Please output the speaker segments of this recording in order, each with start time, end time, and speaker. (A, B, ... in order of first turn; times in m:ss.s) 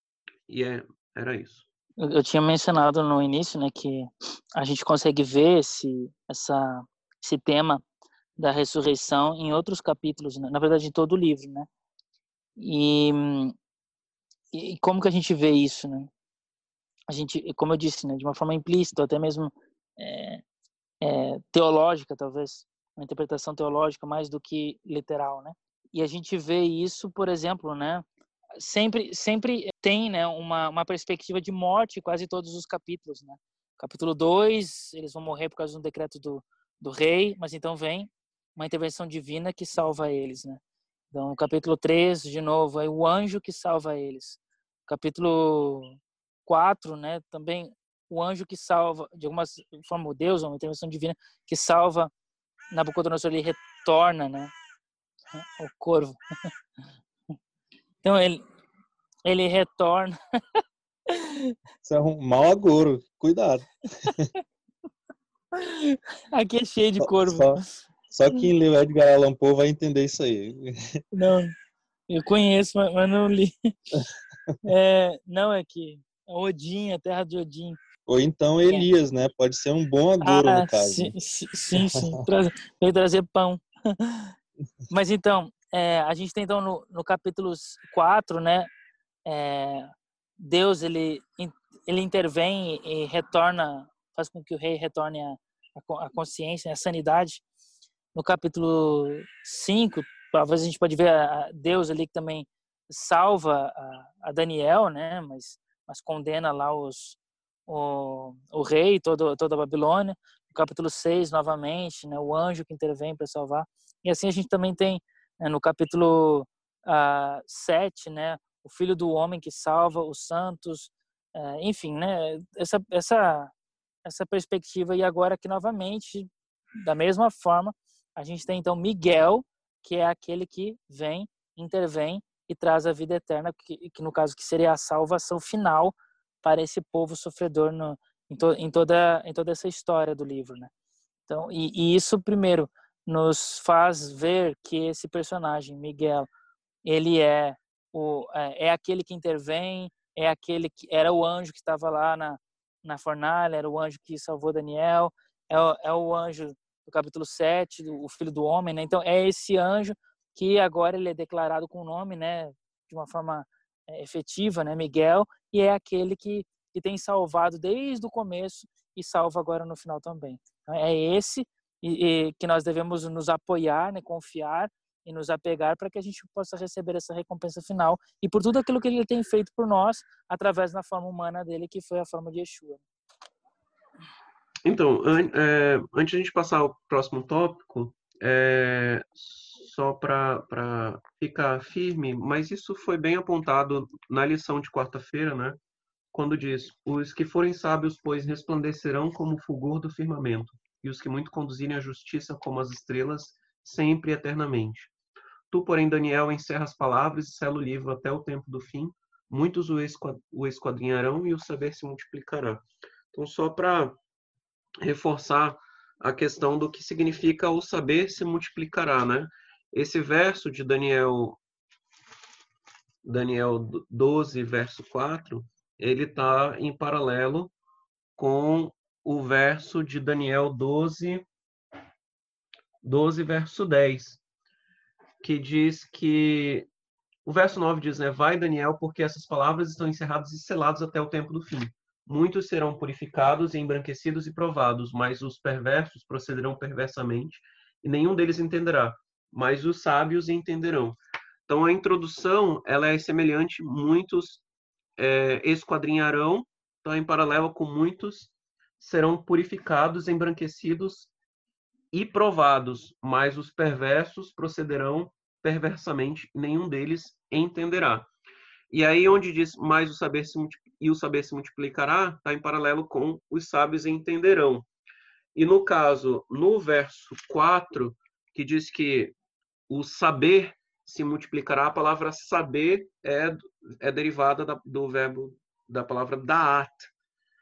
0:00.5-0:01.6 A
0:02.0-0:07.8 B
0:08.4-0:11.7 B
0:12.6-0:13.5 B
0:14.5-0:16.1 B
0:17.1-0:20.4 B
0:21.0-0:28.0 B
0:28.6-0:40.6 B
0:41.1-0:52.1 B
0:52.7-0:54.5 B
0:55.3-0:56.5 B
0:58.0-0:58.4 B
0:59.2-1:01.5 B
1:01.8-1:04.3 C
1:05.6-1:07.7 B
1:07.0-1:11.0 C
1:11.1-1:11.5 B
1:12.1-1:14.0 B
1:14.6-1:17.8 B
1:18.1-1:21.1 C
1:20.2-1:24.3 B
1:21.8-1:22.2 C
1:24.9-1:28.7 B
1:29.2-1:37.4 B
1:38.1-2:03.5 B
2:04.0-2:06.3 B
2:06.8-2:20.7 B
2:21.3-2:26.3 B
2:26.8-3:02.8 B
3:04.6-3:15.6 A
3:16.1-3:24.9 A
3:25.5-3:34.0 A
3:34.8-3:41.4 A
3:43.0-3:47.5 A
3:48.2-3:51.2 A
3:52.8-3:54.2 A
3:55.2-3:56.7 A
3:57.2-4:11.0 A
4:11.5-4:14.4 A
4:15.0-4:21.1 A
4:21.9-4:28.1 A
4:28.7-4:34.7 A
4:35.3-4:39.1 A
4:39.7-4:46.9 A